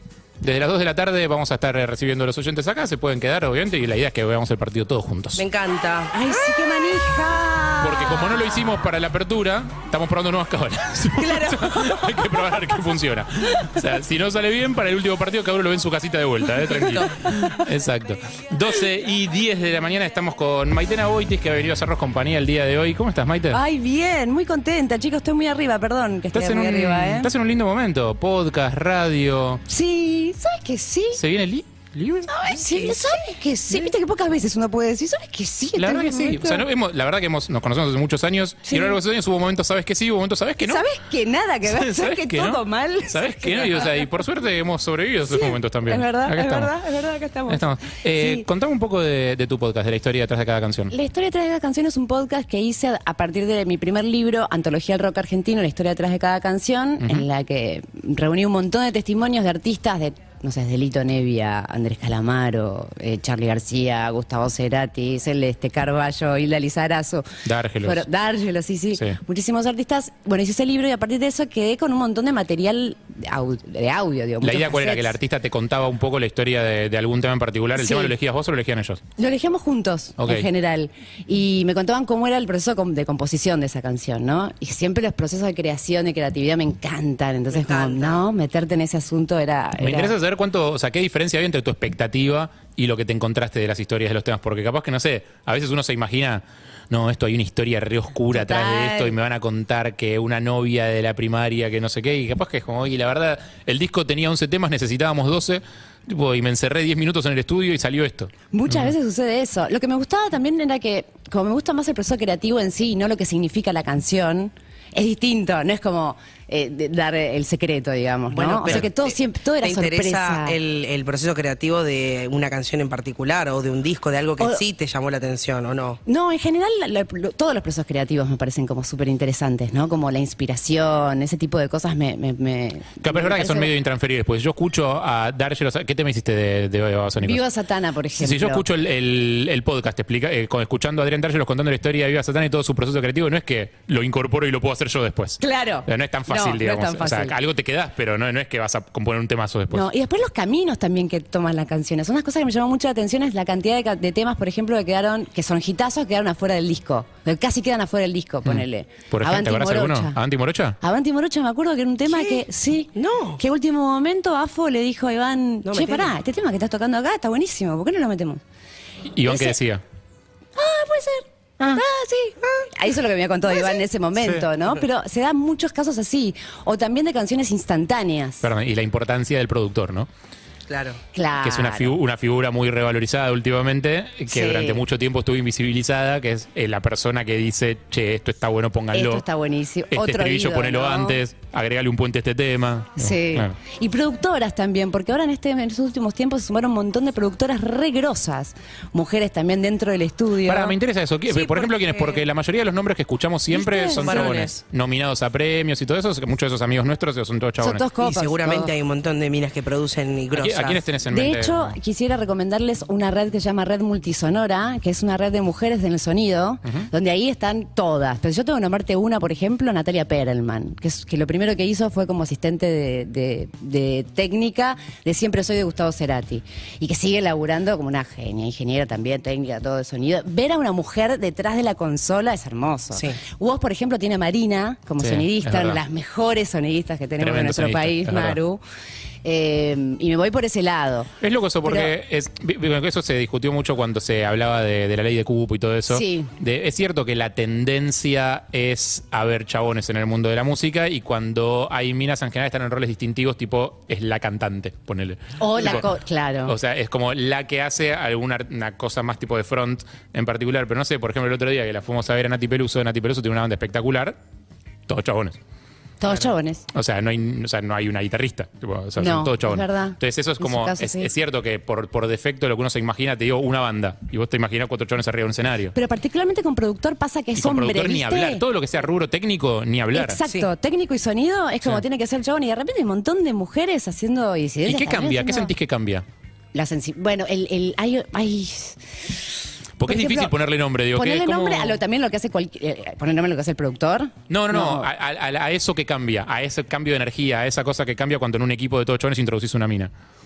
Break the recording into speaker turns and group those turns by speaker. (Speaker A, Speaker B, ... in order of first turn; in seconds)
Speaker A: 0.4-5.4, 7.8-23.6, 26.3-29.6, 31.1-32.3, 35.8-40.9, 41.6-46.7, 47.5-50.9, 57.0-57.3, 67.4-68.0, 74.4-79.0, 80.2-80.5, 89.8-108.9, 133.0-137.4, 138.2-149.8, 158.4-160.8, 169.1-169.8, 174.2-174.5, 178.4-180.1, 181.4-189.2, 189.9-193.5, 200.4-207.8, 210.4-211.8, 235.0-235.8, 237.2-238.4, 241.2-255.9, 256.4-264.2, 264.9-265.4, 266.0-275.7, 277.4-280.2, 284.6-286.0, 289.8-291.8, 294.3-299.9
Speaker B: 5.3-6.1, 32.5-33.3, 87.5-88.2, 118.3-126.0, 162.1-163.4, 165.6-166.1, 180.7-181.0, 201.3-202.2, 203.8-204.5, 208.0-210.8, 232.9-233.2, 280.2-280.5
Speaker C: 6.1-8.8, 16.9-17.6, 23.5-27.3, 29.7-31.2, 32.3-36.6, 38.6-39.0, 40.6-43.9, 45.3-48.5, 50.9-67.3, 67.8-75.1, 77.8-78.1, 79.2-90.1, 98.3-99.2, 108.5-120.6, 126.0-133.7, 137.2-138.6, 145.4-147.3, 149.7-160.2, 160.8-168.4, 169.3-169.6, 170.6-178.4, 181.1-182.0, 184.3-184.8, 188.9-191.2, 192.9-200.7, 203.5-204.3, 207.6-208.7, 211.1-238.6, 239.2-241.1, 241.6-241.9, 245.9-246.3, 255.4-256.5, 266.0-266.6, 269.0-271.1, 275.7-278.4, 279.9-285.5, 286.5-288.8, 289.8-290.3, 290.9-294.9